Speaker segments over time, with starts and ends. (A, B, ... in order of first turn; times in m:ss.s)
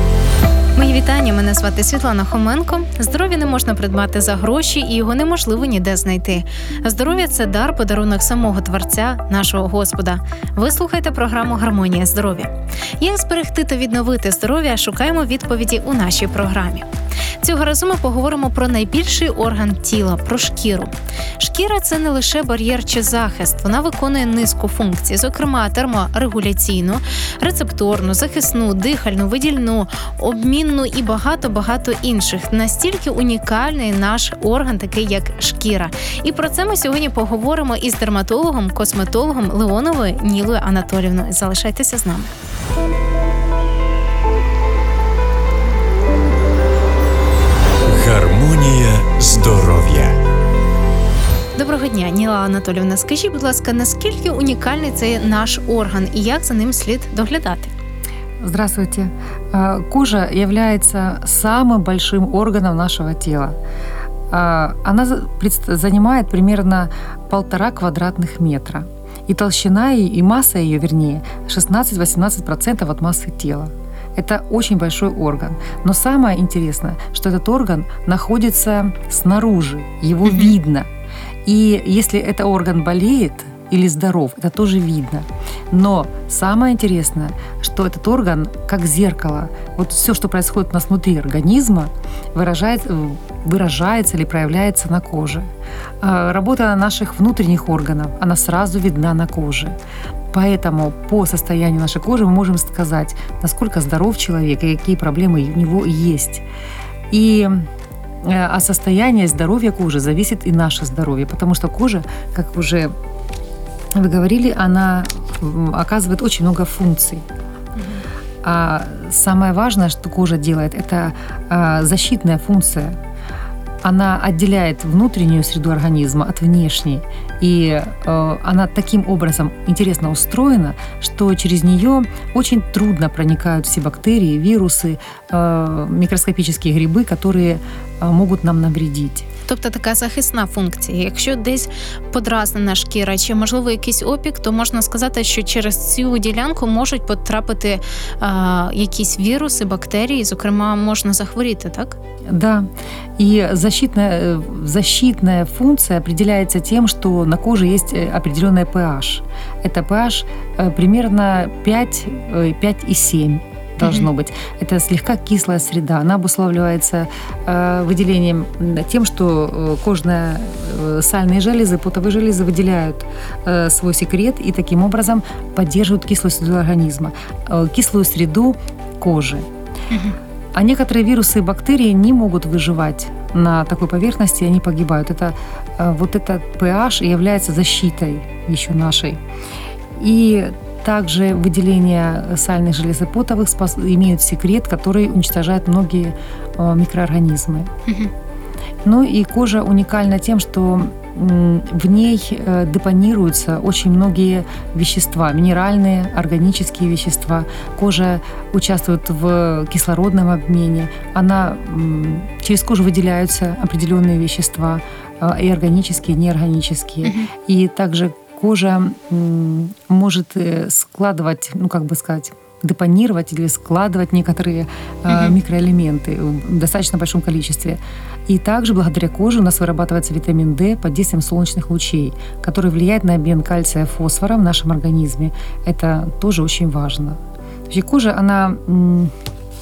0:00.8-0:16.9 A
0:17.4-0:42.3 A
0:47.8-0:50.2 B
0:51.6-0:57.7 A
0:58.4-1:03.6 C
1:04.3-1:20.9 C
1:20.2-1:20.5 A
1:21.4-1:39.8 C
1:40.3-1:46.4 C
1:47.1-1:47.7 C
1:48.2-1:52.9 C
1:53.9-1:57.2 C
1:57.8-1:58.0 A
1:58.4-2:03.0 C
2:03.8-2:19.3 C
2:19.5-2:32.0 A
2:32.3-2:59.5 C
2:43.8-2:44.1 A
2:59.9-3:00.2 A
3:00.5-3:09.2 C
3:09.9-3:17.7 C
3:18.8-3:59.1 C
3:37.0-3:37.3 A